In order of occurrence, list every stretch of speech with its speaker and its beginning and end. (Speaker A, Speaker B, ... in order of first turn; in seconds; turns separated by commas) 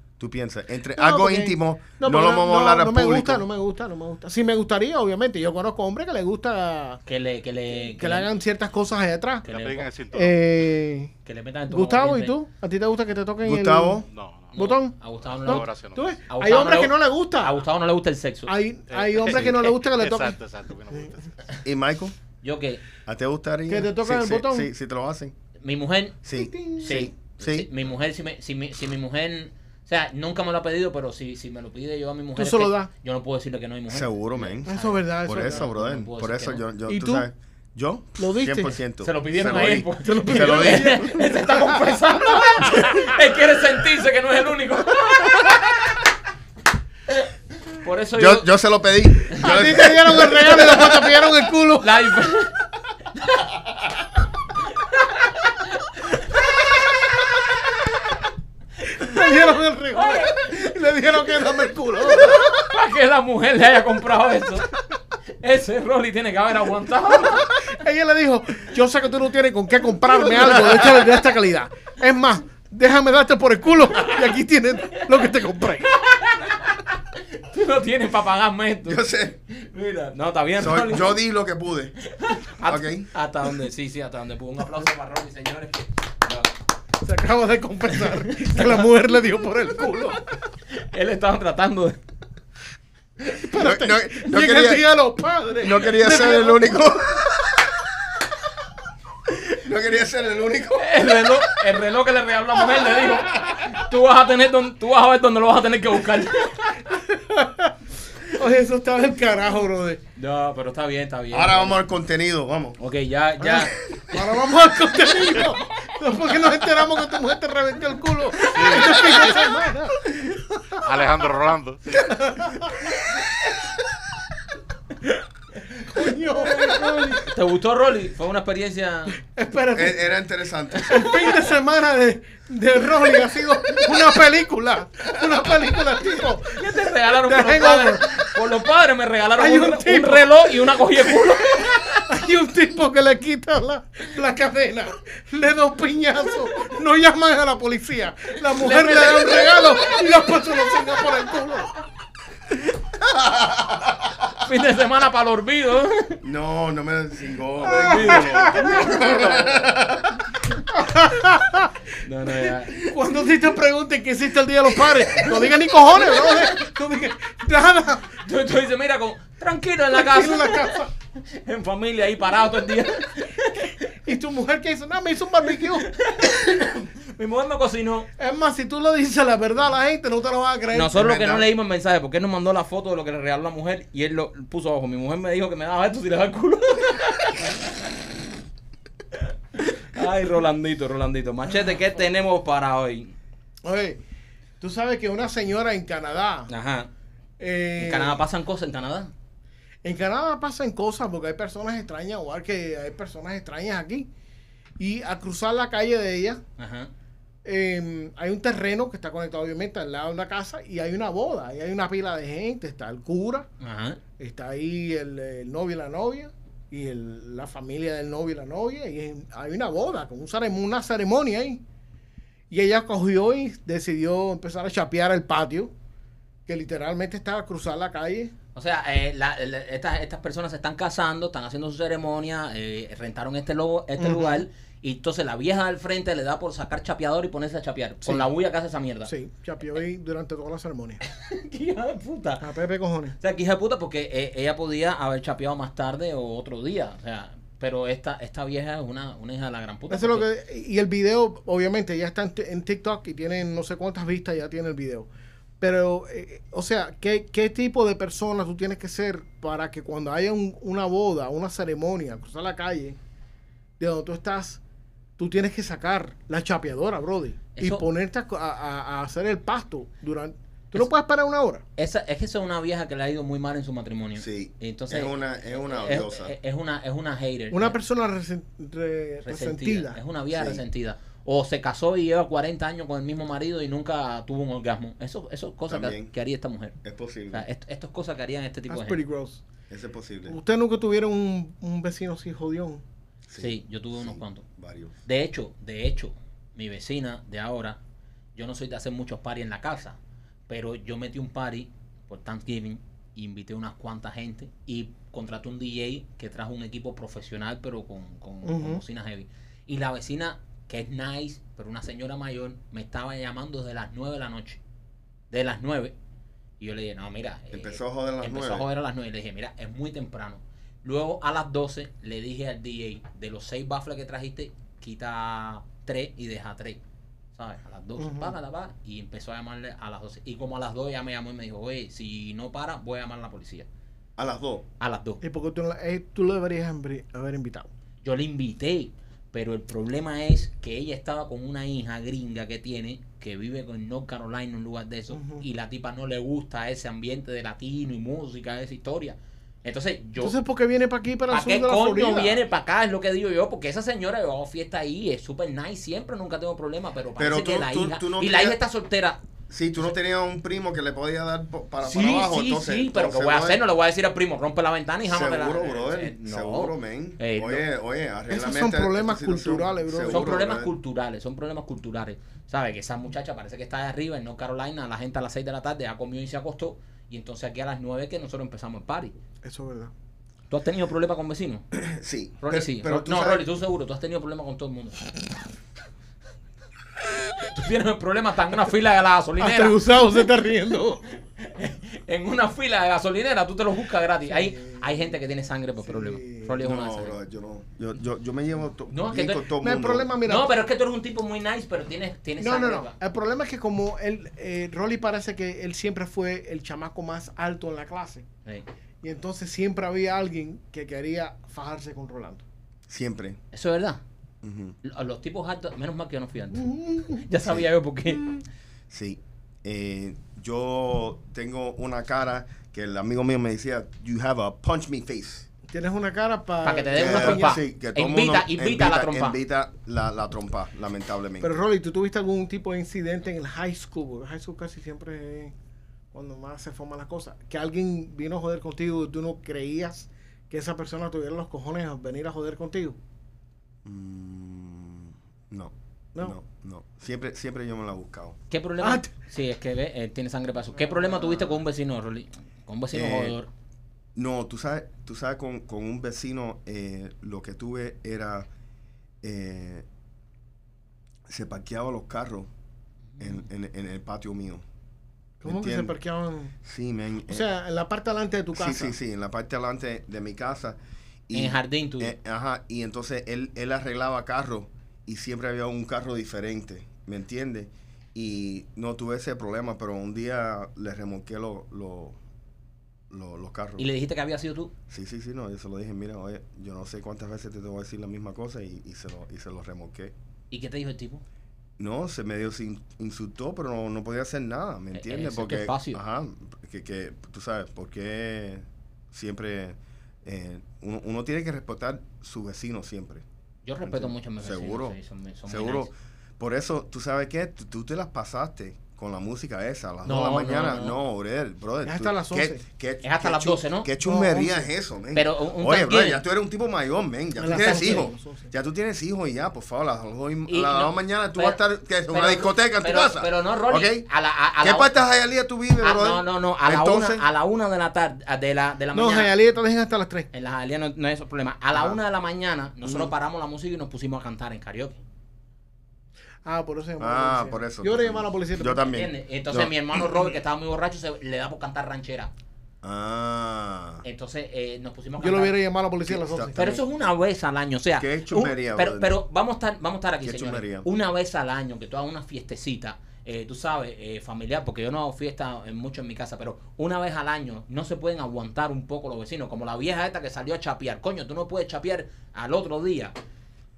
Speaker A: 0.2-3.5, Speaker B: 0.9-7.0, Speaker C: 7.1-8.3, Speaker B: 7.7-9.4, Speaker C: 9.4-9.9, Speaker D: 9.5-10.5, Speaker B: 10.1-11.1, Speaker C: 11.2-12.3, Speaker B: 11.7-17.6, Speaker A: 13.4-14.1, Speaker D: 14.1-14.6, Speaker C: 14.5-15.7, Speaker D: 15.4-16.2, Speaker C: 16.3-18.5, Speaker B: 18.5-20.4, Speaker D: 18.9-21.4, Speaker A: 21.6-22.1, Speaker C: 22.4-22.8, Speaker A: 23.1-25.3, Speaker B: 23.7-24.7, Speaker C: 25.6-36.6, Speaker A: 26.2-27.7, Speaker B: 26.3-27.1, Speaker B: 32.4-32.9, Speaker A: 33.9-41.1, Speaker B: 34.7-35.7, Speaker B: 36.9-37.2, Speaker B: 38.2-38.8, Speaker C: 39.0-46.0, Speaker B: 40.0-43.2, Speaker C: 47.1-48.5, Speaker A: 48.1-50.8, Speaker B: 49.4-52.0, Speaker C: 50.7-51.0, Speaker C: 51.8-52.6, Speaker C: 54.8-56.2, Speaker B: 58.9-62.6, Speaker C: 59.9-60.4, Speaker C: 62.1-64.7, Speaker C: 65.4-67.5, Speaker B: 67.3-75.9, Speaker A: 70.1-71.2, Speaker C: 75.8-81.2, Speaker A: 78.9-79.4, Speaker A: 80.6-82.0, Speaker C: 82.1-86.5, Speaker A: 82.7-83.1, Speaker B: 87.0-90.3, Speaker C: 90.7-92.0, Speaker B: 93.2-96.8, Speaker A: 93.5-94.9, Speaker A: 95.6-97.8, Speaker A: 99.3-101.5, Speaker C: 100.8-106.8, Speaker A: 103.0-103.7, Speaker B: 106.9-110.0, Speaker C: 110.2-111.8, Speaker A: 111.3-112.8, Speaker C: 112.8-113.8, Speaker A: 113.4-114.0, Speaker B: 114.1-120.8, Speaker D: 118.5-119.4, Speaker D: 120.8-122.0, Speaker B: 121.9-122.9, Speaker B: 125.7-127.3, Speaker C: 126.3-129.2, Speaker B: 129.2-130.1, Speaker A: 129.7-131.3, Speaker B: 130.9-138.3, Speaker C: 136.5-142.1, Speaker B: 139.4-151.7, Speaker C: 148.5-150.0, Speaker A: 153.1-154.3, Speaker C: 154.4-156.2, Speaker A: 156.2-160.2, Speaker B: 157.6-159.1, Speaker C: 157.6-159.6, Speaker B: 160.7-168.2, Speaker C: 161.9-162.9, Speaker C: 168.2-173.9, Speaker B: 169.9-170.9, Speaker B: 174.1-175.9, Speaker C: 175.6-178.1, Speaker B: 178.2-181.4, Speaker C: 180.7-187.7, Speaker C: 189.6-193.2, Speaker B: 193.6-194.0, Speaker B: 194.6-196.5, Speaker C: 196.5-196.9, Speaker B: 197.4-198.2, Speaker C: 197.8-199.1, Speaker B: 199.8-204.1, Speaker B: 204.8-206.4, Speaker C: 206.6-206.9, Speaker B: 207.4-213.5, Speaker C: 213.6-214.0, Speaker B: 214.2-221.6, Speaker B: 222.5-225.7, Speaker B: 226.5-228.3, Speaker C: 228.6-239.1, Speaker B: 234.0-234.4, Speaker B: 239.1-241.0, Speaker C: 241.0-242.5, Speaker B: 242.4-243.2, Speaker C: 243.2-250.3, Speaker B: 249.9-255.1, Speaker B: 255.6-263.0, Speaker B: 263.8-264.6, Speaker B: 265.2-271.6, Speaker C: 267.6-267.8, Speaker C: 271.8-277.8, Speaker A: 274.2-276.4, Speaker B: 277.5-280.0, Speaker C: 279.2-286.8, Speaker A: 280.3-280.6, Speaker A: 285.7-286.1, Speaker A: 286.8-287.5, Speaker C: 287.3-289.0, Speaker B: 288.7-289.4, Speaker A: 289.7-290.4, Speaker B: 290.3-292.8, Speaker A: 293.3-295.0, Speaker C: 293.4-294.4, Speaker C: 295.1-297.8, Speaker C: 298.4-300.0, Speaker C: 300.5-314.6, Speaker B: 308.4-308.8, Speaker C: 315.3-315.9, Speaker C: 316.6-326.8, Speaker A: 317.5-318.7, Speaker C: 327.4-333.7, Speaker B: 328.0-328.4, Speaker A: 334.2-334.6, Speaker C: 334.8-335.2, Speaker B: 335.2-337.7, Speaker C: 338.0-350.4, Speaker B: 345.1-345.4, Speaker B: 350.2-352.4, Speaker C: 351.3-359.2, Speaker A: 357.2-358.6, Speaker A: 359.5-363.6, Speaker C: 361.8-367.6, Speaker A: 365.0-370.7, Speaker B: 368.3-370.4, Speaker C: 370.1-379.1, Speaker B: 379.4-379.9, Speaker C: 380.5-381.7, Speaker A: 381.7-383.4, Speaker C: 382.4-385.1, Speaker C: 387.3-390.2, Speaker B: 389.4-391.0, Speaker C: 391.4-397.2, Speaker B: 394.3-394.8, Speaker B: 395.8-396.6, Speaker A: 396.6-400.1, Speaker C: 398.9-399.5, Speaker B: 399.6-400.5, Speaker C: 400.2-402.9, Speaker B: 402.4-408.3, Speaker B: 409.0-412.4, Speaker A: 412.9-413.4, Speaker C: 413.5-414.0, Speaker A: 414.4-414.8, Speaker C: 414.8-418.3, Speaker B: 416.5-417.3, Speaker A: 418.9-425.5, Speaker B: 425.7-427.5, Speaker C: 426.6-429.4, Speaker A: 426.9-431.6, Speaker B: 431.4-435.6, Speaker B: 436.1-443.0, Speaker A: 443.9-448.4, Speaker C: 448.5-453.5, Speaker B: 448.8-449.1, Speaker B: 450.8-451.6, Speaker A: 452.9-453.4, Speaker A: 454.1-458.5, Speaker A: 459.2-459.9, Speaker A: 461.3-462.5, Speaker A: 463.2-464.6, Speaker B: 465.4-466.5, Speaker A: 465.4-465.9, Speaker A: 466.6-467.4, Speaker B: 467.3-468.9, Speaker A: 468.5-482.2, Speaker C: 471.3-472.2, Speaker A: 483.1-483.9, Speaker C: 483.8-484.7, Speaker A: 484.9-490.1, Speaker C: 490.5-491.2, Speaker A: 491.8-503.2, Speaker C: 494.9-496.0, Speaker C: 503.6-505.9, Speaker A: 503.8-524.1, Speaker C: 510.1-511.0, Speaker B: 511.8-512.6, Speaker C: 513.0-513.9, Speaker B: 514.0-514.7, Speaker C: 515.1-516.2, Speaker B: 517.4-518.5, Speaker C: 517.5-518.1, Speaker C: 520.5-524.9, Speaker A: 524.6-527.2, Speaker C: 525.8-529.3, Speaker B: 528.9-530.3, Speaker C: 530.3-535.0, Speaker A: 532.8-533.1, Speaker B: 536.5-538.9, Speaker A: 537.0-540.3, Speaker C: 538.9-542.3, Speaker A: 542.8-544.0, Speaker C: 544.0-545.6, Speaker B: 545.2-546.6, Speaker A: 546.0-546.8, Speaker C: 546.5-563.1, Speaker A: 548.0-549.1, Speaker A: 550.2-550.9